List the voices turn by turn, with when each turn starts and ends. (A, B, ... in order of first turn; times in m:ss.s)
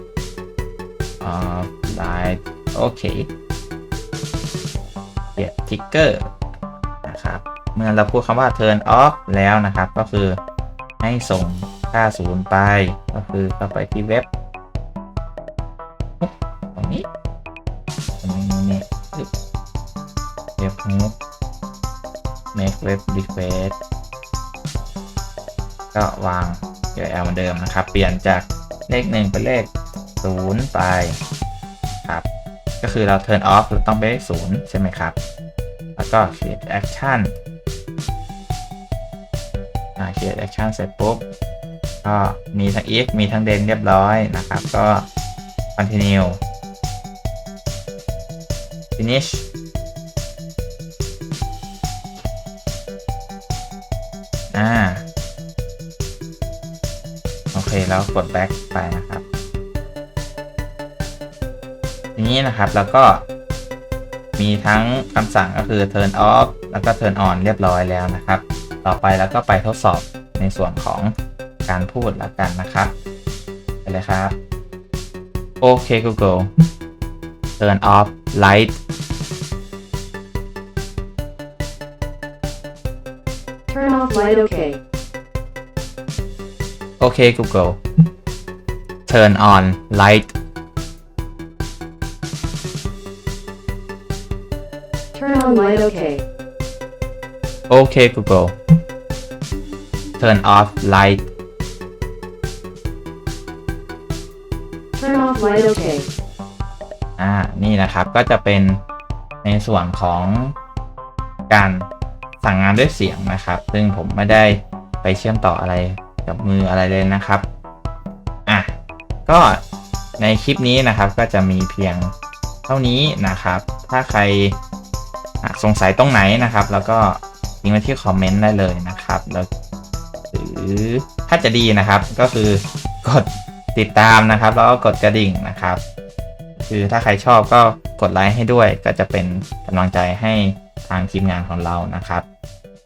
0:01.2-0:03.3 A
0:05.4-0:06.3 A
0:07.0-0:10.4 A
0:11.0-0:14.3 A
0:16.2-0:17.1 A
0:18.2-0:19.3 A
0:20.6-0:21.1 A
0:22.5-0:23.8 A
0:25.9-0:31.2 A
0:32.8-0:35.2 A
0:36.0-0:37.3 A
0:40.0-0:41.3 A
0:42.0-0:45.1 A
0:45.8-0:46.4 A
0:49.0-0:49.5 A
0:54.5-0:55.0 A
0:57.5-0:59.2 A
1:02.2-1:03.2 A
1:04.4-1:11.1 A
1:11.7-1:12.9 A
1:13.8-1:14.4 A
1:15.6-1:16.5 A
1:17.6-1:18.8 A
1:23.7-1:24.8 B
1:27.0-1:27.8 A
1:29.1-1:30.3 A
1:35.1-1:36.2 B
1:37.7-1:38.6 A
1:40.2-1:41.3 A
1:45.0-1:46.1 B
1:47.2-1:48.8 A
1:49.4-1:50.5 A
1:51.5-1:51.9 A
1:52.4-1:57.5 A
1:58.5-1:58.7 A
1:59.3-1:59.6 A
2:00.2-2:02.1 A
2:02.7-2:04.6 A
2:05.4-2:09.5 A
2:10.3-2:15.8 A
2:16.6-2:22.2 A